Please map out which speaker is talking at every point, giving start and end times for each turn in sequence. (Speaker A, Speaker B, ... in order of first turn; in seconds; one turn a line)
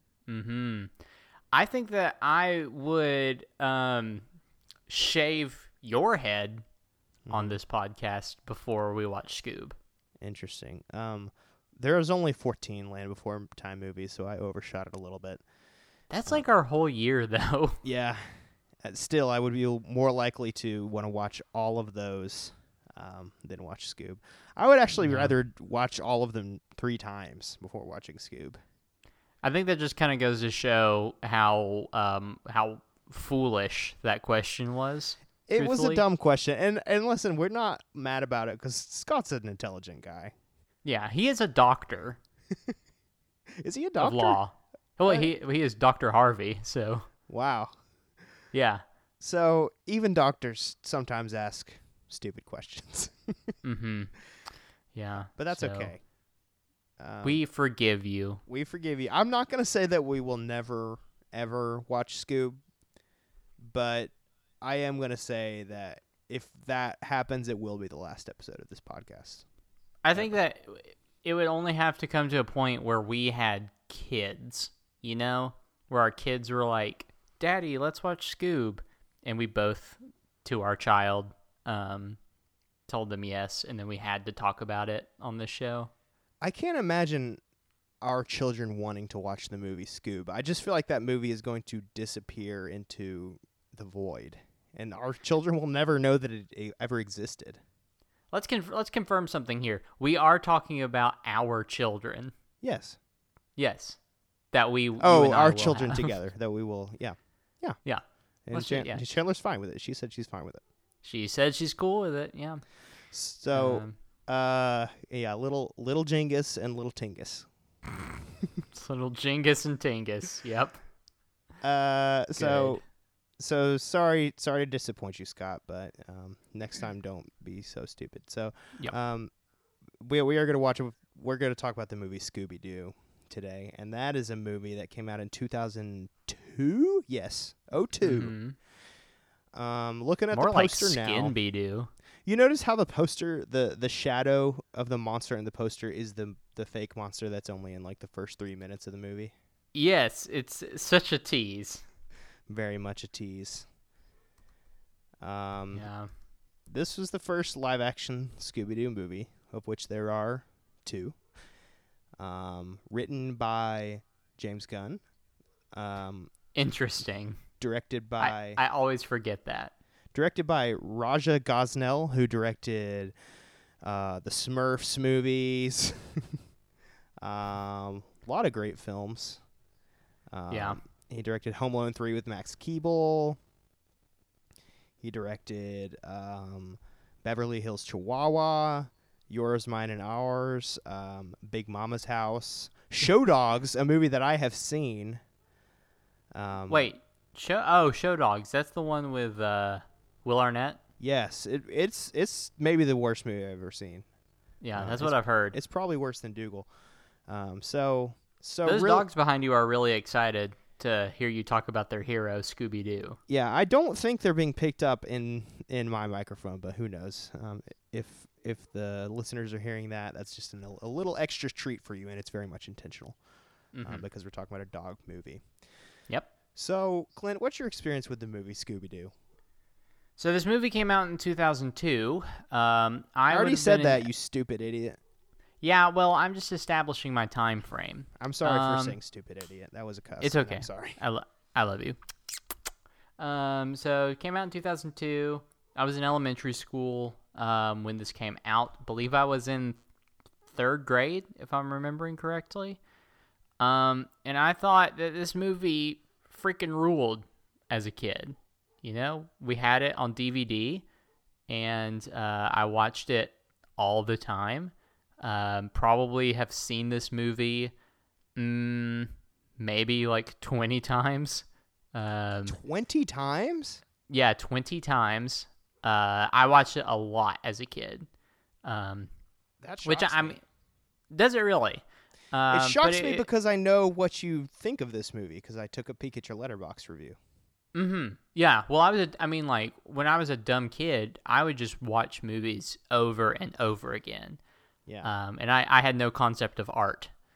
Speaker A: 0.3-0.9
Speaker A: 1.5-4.2
Speaker A: 4.9-6.6
Speaker B: 7.2-7.6
Speaker A: 7.3-9.8
Speaker B: 10.2-15.4
Speaker A: 16.1-17.8
Speaker B: 17.8-28.6
Speaker A: 25.0-25.3
Speaker A: 29.4-36.0
Speaker B: 35.5-40.3
Speaker A: 40.8-42.2
Speaker B: 43.6-44.4
Speaker A: 44.0-47.1
Speaker B: 47.3-47.8
Speaker A: 48.5-48.8
Speaker B: 49.2-53.5
Speaker A: 53.6-54.1
Speaker A: 54.9-55.9
Speaker B: 55.3-56.0
Speaker B: 57.0-57.4
Speaker A: 57.2-58.4
Speaker B: 58.5-62.6
Speaker B: 63.6-69.4
Speaker A: 70.0-82.2
Speaker A: 82.9-85.9
Speaker B: 86.4-87.4
Speaker B: 88.0-97.6
Speaker A: 98.3-102.3
Speaker B: 102.6-103.0
Speaker A: 103.6-104.0
Speaker A: 104.5-106.1
Speaker B: 105.0-107.8
Speaker A: 107.8-109.0
Speaker B: 108.5-110.6
Speaker A: 111.0-112.6
Speaker B: 113.1-117.5
Speaker A: 113.5-113.9
Speaker A: 118.7-120.8
Speaker B: 121.6-122.8
Speaker A: 122.4-122.8
Speaker B: 123.4-129.3
Speaker B: 130.0-138.3
Speaker A: 138.0-138.6
Speaker B: 139.5-141.4
Speaker A: 140.3-141.9
Speaker B: 142.2-149.3
Speaker A: 149.7-151.8
Speaker B: 152.5-153.7
Speaker B: 155.2-155.9
Speaker A: 155.7-156.1
Speaker B: 156.7-161.2
Speaker B: 162.2-165.0
Speaker B: 165.7-166.3
Speaker A: 166.5-167.4
Speaker B: 167.6-168.6
Speaker A: 168.2-169.7
Speaker B: 170.1-173.1
Speaker B: 173.8-176.4
Speaker B: 177.2-179.4
Speaker B: 180.3-183.4
Speaker A: 180.5-180.8
Speaker B: 185.0-195.2
Speaker B: 196.3-196.9
Speaker A: 196.7-200.8
Speaker B: 201.0-204.1
Speaker A: 204.6-205.6
Speaker B: 204.8-206.7
Speaker B: 207.3-209.1
Speaker A: 208.6-213.2
Speaker B: 213.3-223.2
Speaker A: 223.7-224.0
Speaker B: 223.8-225.4
Speaker B: 226.5-229.1
Speaker A: 230.2-234.1
Speaker B: 233.3-235.0
Speaker A: 235.6-239.0
Speaker B: 238.2-241.0
Speaker A: 240.2-242.0
Speaker A: 243.2-249.8
Speaker A: 250.5-252.8
Speaker A: 253.6-260.8
Speaker A: 261.5-267.7
Speaker A: 268.4-272.6
Speaker B: 272.5-273.8
Speaker A: 274.1-278.1
Speaker A: 278.6-279.1
Speaker B: 279.6-280.4
Speaker A: 279.8-280.4
Speaker A: 281.1-283.2
Speaker B: 282.5-287.2
Speaker A: 287.8-294.4
Speaker A: 295.0-297.1